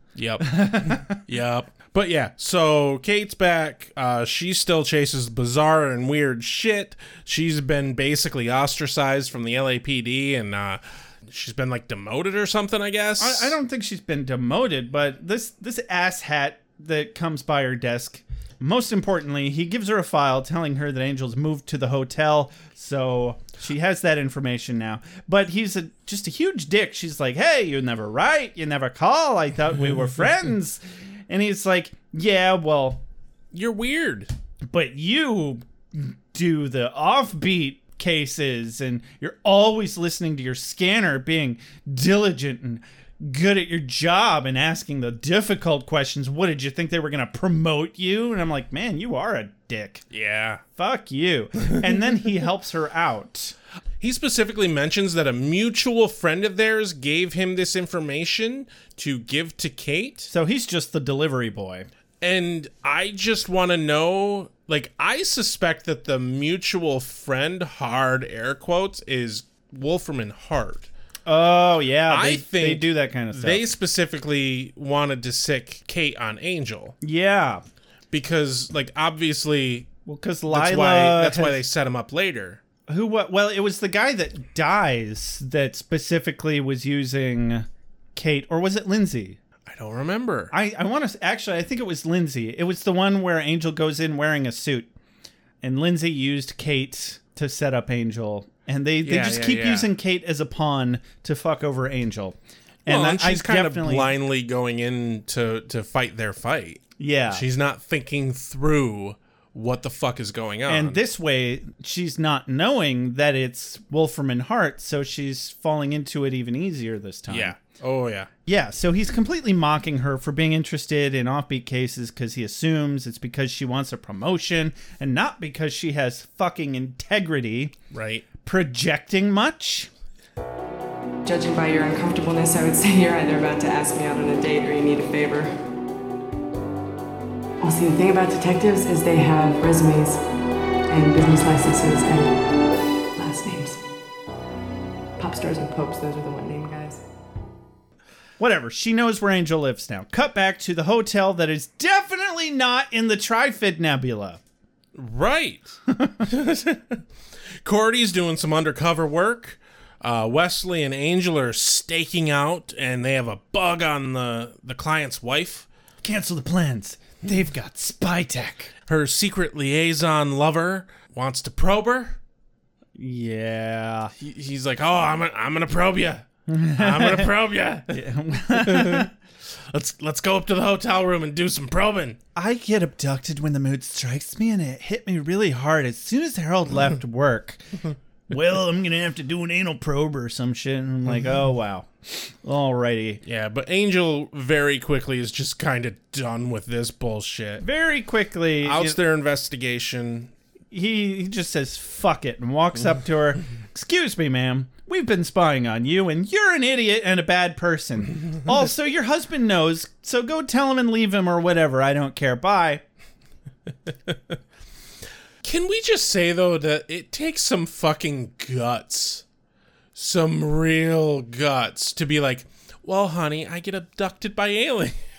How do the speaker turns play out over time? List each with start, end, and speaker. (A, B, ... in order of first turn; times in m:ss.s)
0:00.1-0:13.6 A
0:00.4-0:01.2 B
0:13.2-0:33.0 B
0:33.5-0:34.3 A
0:34.7-0:50.0 B
0:50.1-0:50.6 A
0:50.7-0:53.5 B
0:54.0-1:00.3 A
1:00.3-1:01.9 B
1:02.2-1:10.9 A
1:11.2-1:13.7 B
1:12.1-1:16.9 A
1:17.0-1:17.6 B
1:18.1-1:19.9 A
1:20.0-1:21.6 B
1:20.5-1:22.6 A
1:22.9-1:29.4 B
1:29.6-1:30.5 A
1:30.5-1:34.9 B
1:35.6-1:44.1 B
1:39.0-1:39.9 A
1:42.8-1:51.0 A
1:47.0-1:47.4 B
1:50.7-1:57.6 B
1:57.3-1:58.3 A
1:58.4-2:07.7 B
2:07.9-2:08.2 A
2:08.4-2:09.9 B
2:11.2-2:15.6 C
2:17.6-2:20.2 C
2:20.9-2:22.3 C
2:23.2-2:23.8 C
2:25.2-2:27.0 C
2:28.4-2:34.4 B
2:34.9-2:37.0 A
2:37.6-2:45.7 A
2:46.0-2:48.7 B
2:48.9-2:52.2 A
2:53.0-2:54.1 B
2:54.2-2:56.2 A
2:56.5-2:59.1 B
2:56.8-3:02.2 A
3:02.3-3:07.6 B
3:08.3-3:13.2 B
3:13.2-3:17.6 A
3:17.6-3:19.0 B
3:18.6-3:20.3 A
3:20.7-3:32.8 B
3:34.1-3:34.4 A
3:35.4-3:39.2 A
3:39.9-3:45.0 A